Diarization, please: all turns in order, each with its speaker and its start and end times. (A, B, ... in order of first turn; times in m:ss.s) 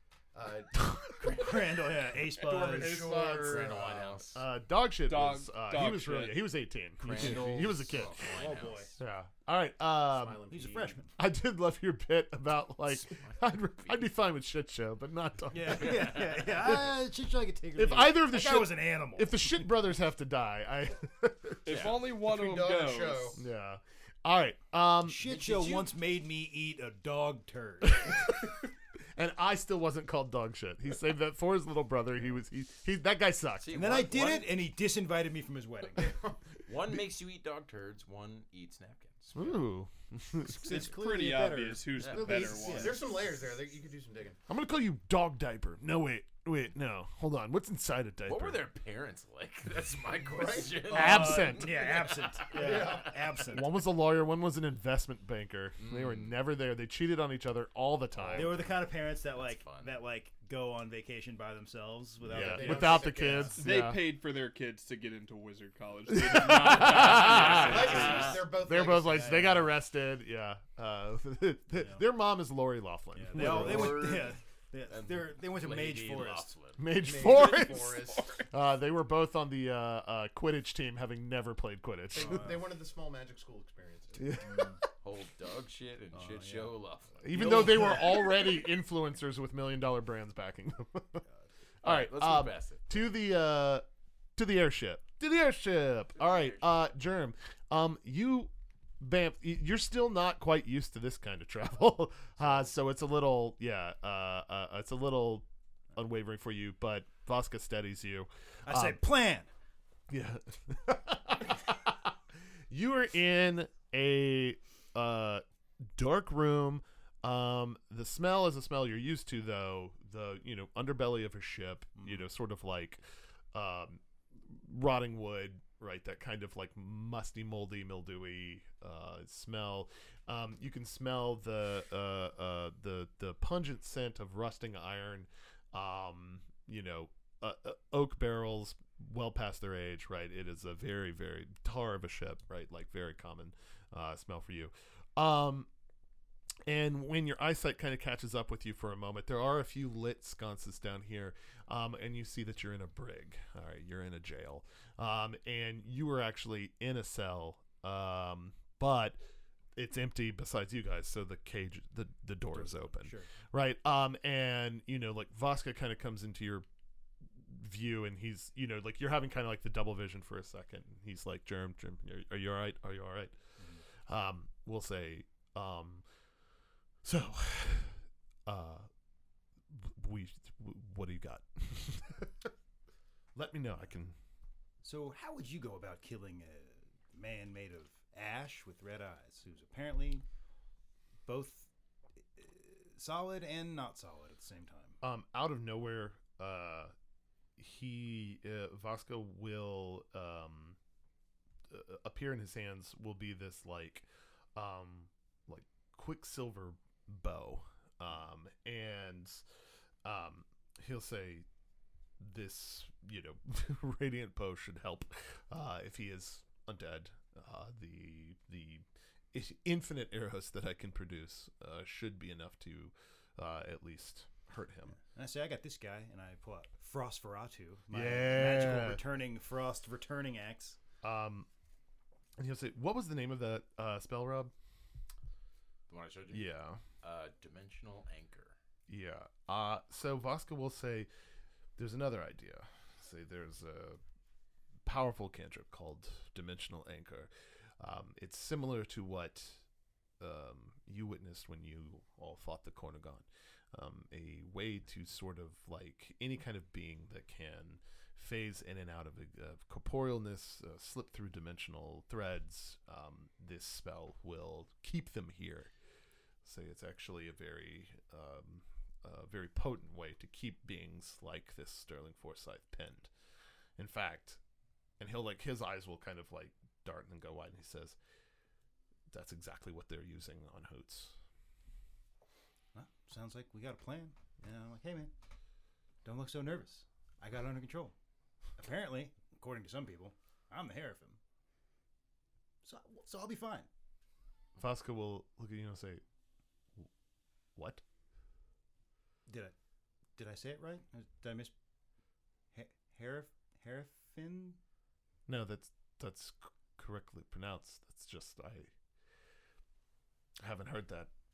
0:00.3-0:01.6 A
0:00.8-0:01.4 B
0:01.2-0:03.3 C
0:02.4-0:04.3 A
0:02.6-0:04.4 D
0:04.3-0:08.3 B
0:05.0-0:06.4 E
0:07.0-0:08.9 D
0:08.2-0:09.0 C
0:09.0-0:10.4 B
0:10.1-0:11.0 A
0:10.5-0:11.1 C
0:11.2-0:17.0 B
0:13.0-0:14.0 D
0:15.5-0:19.6 C
0:15.8-0:16.4 D
0:17.8-0:21.9 B
0:21.6-0:23.4 E
0:21.7-0:22.0 D
0:21.8-0:23.4 A
0:23.4-0:25.2 B
0:25.0-0:28.2 C
0:25.4-0:25.8 D
0:27.8-0:33.8 B
0:33.6-0:34.7 D
0:33.7-0:36.2 C
0:36.0-0:36.4 A
0:36.7-0:39.6 D
0:39.4-0:40.9 B
0:40.4-0:43.0 C
0:40.6-0:43.0 E
0:42.0-0:42.5 D
0:42.0-0:44.4 A
0:44.5-0:48.7 B
0:48.3-0:53.1 D
0:50.2-0:51.4 A
0:50.9-0:53.8 C
0:50.9-0:51.9 B
0:52.5-0:53.2 A
0:52.6-0:58.7 B
0:55.8-0:56.3 D
0:58.2-1:00.0 D
0:58.3-1:03.5 C
1:02.3-1:03.7 A
1:02.3-1:04.1 B
1:03.5-1:08.4 E
1:06.1-1:14.1 B
1:06.9-1:08.5 D
1:07.0-1:09.5 A
1:07.7-1:08.2 C
1:09.1-1:09.7 C
1:11.8-1:12.0 C
1:13.2-1:16.5 C
1:13.3-1:14.4 D
1:14.9-1:18.1 D
1:16.8-1:22.5 B
1:17.0-1:18.5 A
1:22.1-1:24.4 A
1:22.2-1:22.6 C
1:24.2-1:24.8 B
1:24.4-1:24.8 C
1:25.0-1:27.7 D
1:26.1-1:26.8 C
1:27.2-1:31.2 B
1:27.3-1:28.3 C
1:31.8-1:33.1 D
1:31.8-1:33.8 B
1:34.4-1:49.0 B
1:36.2-1:36.6 D
1:48.7-1:49.5 C
1:50.1-1:52.2 B
1:52.7-1:55.4 B
1:55.9-2:03.0 B
2:03.5-2:25.7 B
2:26.7-2:39.2 B
2:39.8-2:46.7 B
2:42.5-2:43.3 C
2:47.2-2:53.3 B
2:54.1-2:56.0 B
2:57.0-2:58.9 B
2:59.7-3:02.5 B
3:03.4-3:04.2 B
3:04.8-3:10.2 C
3:11.3-3:11.7 C
3:12.3-3:15.0 C
3:15.0-3:16.9 B
3:17.6-3:20.8 B
3:21.7-3:29.4 B
3:30.0-3:31.5 B
3:32.2-3:45.0 B
3:45.0-3:50.8 C
3:47.9-3:49.0 B
3:51.0-3:51.5 B
3:52.4-3:54.5 B
3:55.9-3:58.6 D
3:56.3-3:56.8 B
3:58.9-4:01.1 B
4:01.8-4:04.0 B
4:04.9-4:09.6 B
4:10.2-4:25.7 B
4:26.4-4:33.1 B
4:33.8-4:34.4 B
4:35.0-4:38.0 B
4:39.1-4:41.2 B
4:42.7-4:45.1 C
4:46.0-4:48.0 C
4:48.6-4:51.2 C
4:52.6-4:53.7 C
4:54.6-4:56.0 B
4:57.6-4:57.8 B
4:59.3-4:59.6 C
5:00.2-5:01.5 C
5:02.5-5:04.6 C
5:05.3-5:08.7 B
5:10.4-5:11.1 B